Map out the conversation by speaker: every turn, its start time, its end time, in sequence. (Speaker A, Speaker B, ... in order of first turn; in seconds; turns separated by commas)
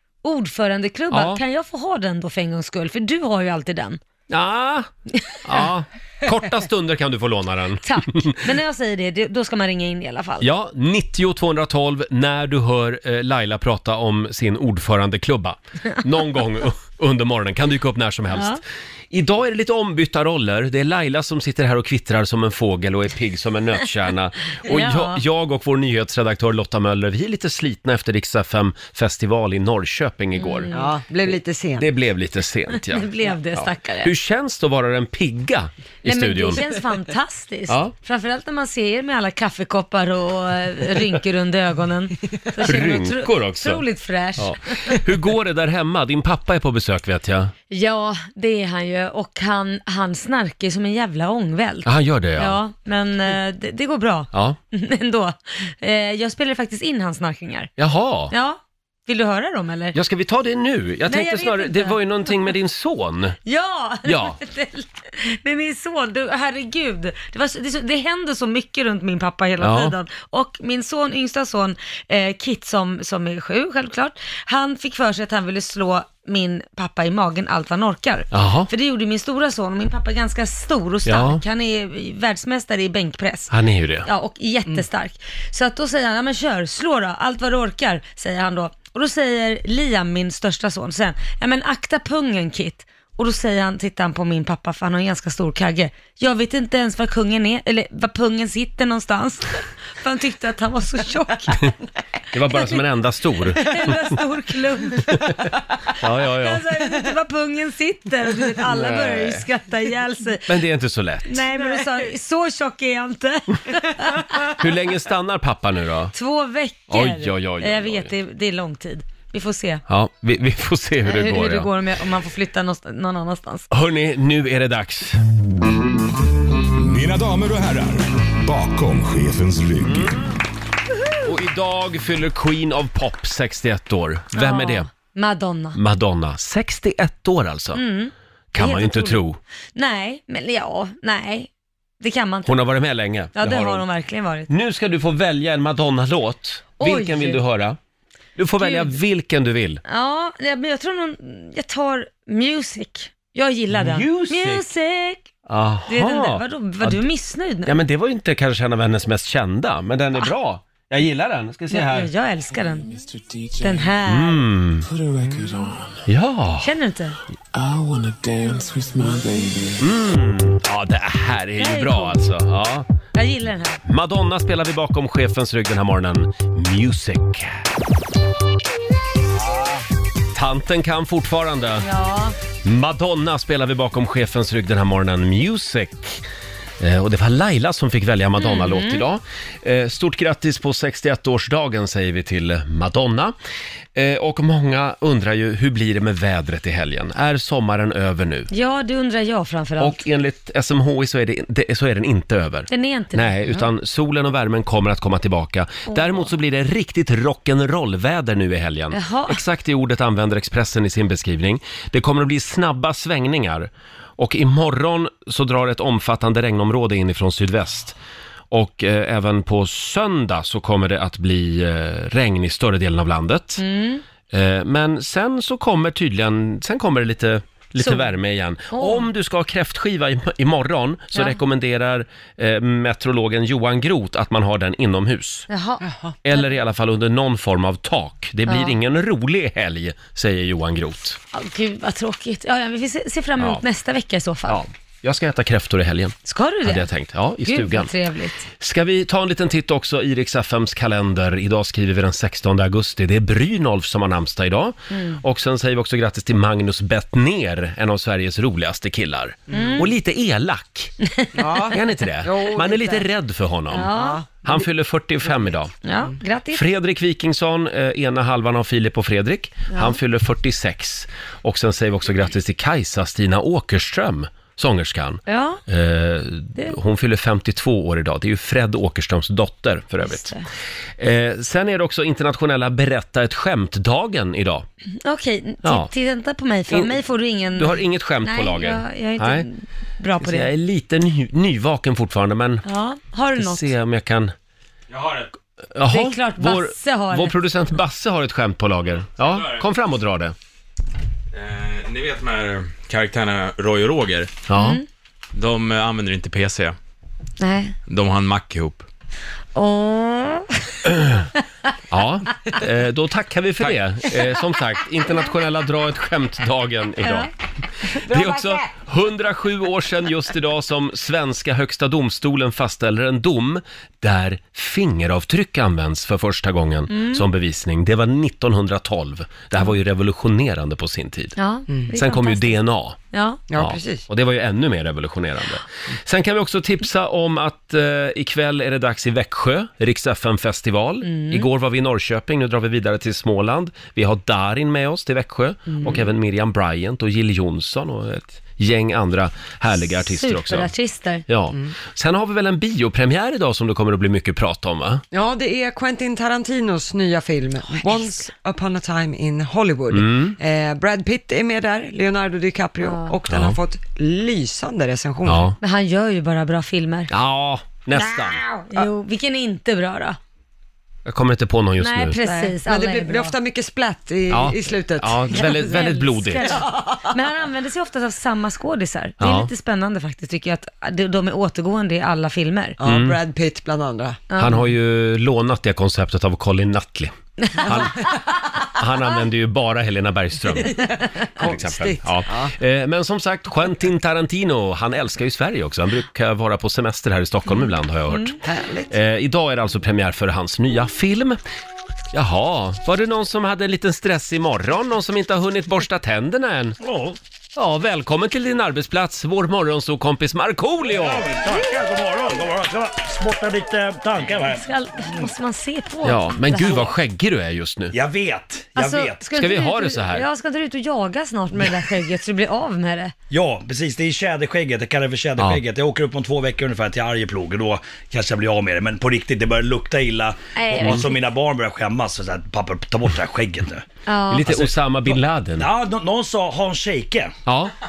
Speaker A: 0.2-4.0, Speaker B: 1.1-1.4, Speaker B: 4.3-4.9, Speaker A: 5.1-5.6, Speaker B: 5.4-8.4, Speaker A: 7.8-10.5, Speaker B: 10.4-18.6, Speaker A: 18.3-18.6, Speaker B: 19.1-30.7, Speaker A: 24.7-25.2, Speaker A: 30.4-30.9, Speaker C: 30.7-31.9, Speaker B: 31.3-36.6, Speaker A: 32.8-34.1, Speaker A: 36.0-45.0, Speaker B: 42.6-43.8, Speaker B: 44.4-47.5, Speaker A: 47.7-51.9, Speaker B: 51.8-52.6, Speaker A: 52.4-57.7, Speaker B: 54.3-54.6, Speaker B: 57.8-58.3, Speaker A: 58.3-60.0, Speaker B: 59.9-63.4, Speaker A: 61.1-62.5, Speaker A: 63.4-83.5, Speaker B: 64.0-64.4, Speaker B: 69.6-70.0, Speaker B: 78.3-78.7, Speaker B: 81.0-81.4, Speaker B: 83.5-84.1, Speaker A: 84.0-101.7, Speaker B: 102.3-104.0, Speaker A: 102.5-102.8, Speaker A: 103.6-105.3, Speaker B: 105.1-105.5, Speaker B: 106.0-106.6, Speaker A: 106.3-110.5, Speaker B: 108.7-109.4, Speaker B: 110.5-111.4, Speaker A: 111.3-114.5, Speaker B: 114.5-116.1, Speaker A: 116.1-119.8, Speaker B: 116.9-118.1, Speaker B: 119.9-121.7, Speaker A: 121.0-123.7, Speaker B: 123.7-125.2, Speaker D: 126.7-130.3, Speaker B: 129.8-130.4, Speaker B: 131.2-134.9, Speaker A: 134.3-135.8, Speaker B: 135.7-137.8, Speaker A: 137.7-139.2, Speaker B: 138.5-139.4, Speaker A: 139.7-141.5, Speaker A: 142.0-142.6, Speaker B: 142.4-143.8, Speaker A: 143.3-144.5, Speaker B: 144.5-147.8, Speaker A: 146.8-147.4, Speaker B: 148.4-149.8, Speaker A: 148.6-149.0, Speaker A: 149.8-155.3, Speaker B: 153.7-154.6, Speaker B: 155.5-157.1, Speaker A: 155.9-157.8, Speaker B: 157.6-162.1, Speaker A: 161.7-162.9, Speaker E: 162.5-164.0, Speaker A: 163.6-164.4, Speaker B: 164.1-165.4, Speaker E: 164.8-166.0, Speaker B: 166.1-166.7, Speaker A: 166.6-167.2, Speaker E: 167.5-169.8, Speaker B: 169.8-172.9, Speaker A: 171.6-172.2, Speaker A: 173.1-173.8, Speaker B: 173.8-177.6, Speaker B: 179.5-179.8, Speaker B: 180.3-181.8, Speaker A: 181.8-182.3, Speaker B: 182.6-186.2, Speaker B: 186.8-193.3, Speaker A: 188.4-189.0, Speaker B: 193.9-198.5, Speaker A: 198.5-200.0, Speaker B: 199.8-218.0, Speaker A: 202.7-203.3, Speaker A: 205.9-206.3, Speaker A: 208.9-209.4, Speaker B: 218.5-223.6, Speaker A: 223.6-224.0, Speaker B: 224.3-235.5, Speaker A: 227.8-228.1, Speaker A: 228.7-229.1, Speaker A: 235.5-236.4, Speaker C: 235.8-236.1, Speaker B: 236.2-241.2, Speaker A: 238.5-238.7, Speaker A: 241.3-244.6, Speaker B: 244.5-247.9, Speaker A: 246.2-246.9, Speaker A: 247.4-248.5, Speaker B: 248.6-260.9, Speaker A: 254.9-255.2, Speaker C: 259.5-259.8, Speaker A: 259.5-259.9, Speaker A: 261.1-261.7, Speaker C: 261.3-263.0, Speaker B: 261.7-263.9, Speaker A: 263.7-264.2, Speaker C: 263.9-264.2, Speaker B: 264.4-265.7, Speaker A: 265.8-266.6, Speaker B: 266.5-280.3, Speaker A: 269.7-270.0, Speaker A: 275.3-275.6, Speaker A: 280.0-280.4, Speaker B: 281.0-284.6, Speaker A: 285.0-290.5, Speaker B: 285.6-285.9, Speaker B: 286.7-287.0, Speaker B: 287.5-289.4, Speaker B: 290.2-292.6, Speaker A: 292.6-293.7, Speaker B: 293.3-294.3, Speaker F: 294.9-295.3, Speaker B: 295.7-300.3, Speaker A: 295.9-297.4, Speaker F: 299.2-299.6, Speaker F: 301.3-304.3, Speaker B: 304.5-304.8, Speaker A: 304.5-304.9, Speaker F: 305.3-306.8, Speaker A: 307.4-307.8, Speaker F: 307.9-308.9, Speaker A: 309.5-310.8, Speaker B: 310.8-311.2, Speaker B: 311.9-317.3, Speaker A: 317.0-317.3, Speaker B: 317.9-331.4, Speaker C: 318.0-318.7, Speaker A: 326.9-327.2, Speaker A: 331.4-333.4, Speaker B: 331.9-333.0, Speaker C: 333.5-334.0, Speaker B: 333.5-350.7, Speaker A: 341.0-341.5, Speaker A: 345.7-346.1, Speaker A: 350.1-351.2, Speaker B: 351.3-355.0, Speaker C: 355.1-365.5, Speaker B: 359.9-360.4, Speaker A: 362.8-363.2, Speaker B: 363.3-363.6, Speaker B: 365.2-365.6, Speaker A: 365.6-367.1, Speaker B: 367.1-368.4, Speaker A: 367.9-370.2, Speaker B: 371.1-372.2, Speaker A: 371.8-373.4, Speaker C: 372.2-375.8, Speaker B: 374.3-376.6, Speaker A: 375.6-382.8, Speaker C: 376.4-376.9, Speaker B: 379.2-379.5, Speaker C: 382.8-384.2, Speaker B: 382.8-383.2, Speaker A: 384.3-384.6, Speaker B: 384.4-398.4, Speaker A: 387.4-387.7, Speaker C: 387.6-388.2, Speaker C: 390.7-392.5, Speaker C: 398.4-398.9, Speaker B: 398.9-401.4, Speaker B: 402.1-406.8, Speaker G: 406.8-407.2, Speaker B: 407.6-411.3, Speaker G: 410.9-414.6, Speaker A: 414.3-416.9, Speaker B: 416.0-418.0, Speaker G: 416.6-416.9, Speaker G: 417.9-419.2, Speaker A: 418.7-423.1, Speaker B: 419.3-420.2, Speaker G: 423.3-433.9, Speaker A: 430.6-431.2, Speaker A: 434.1-434.5, Speaker B: 434.3-435.7, Speaker G: 434.4-437.3, Speaker B: 437.4-437.7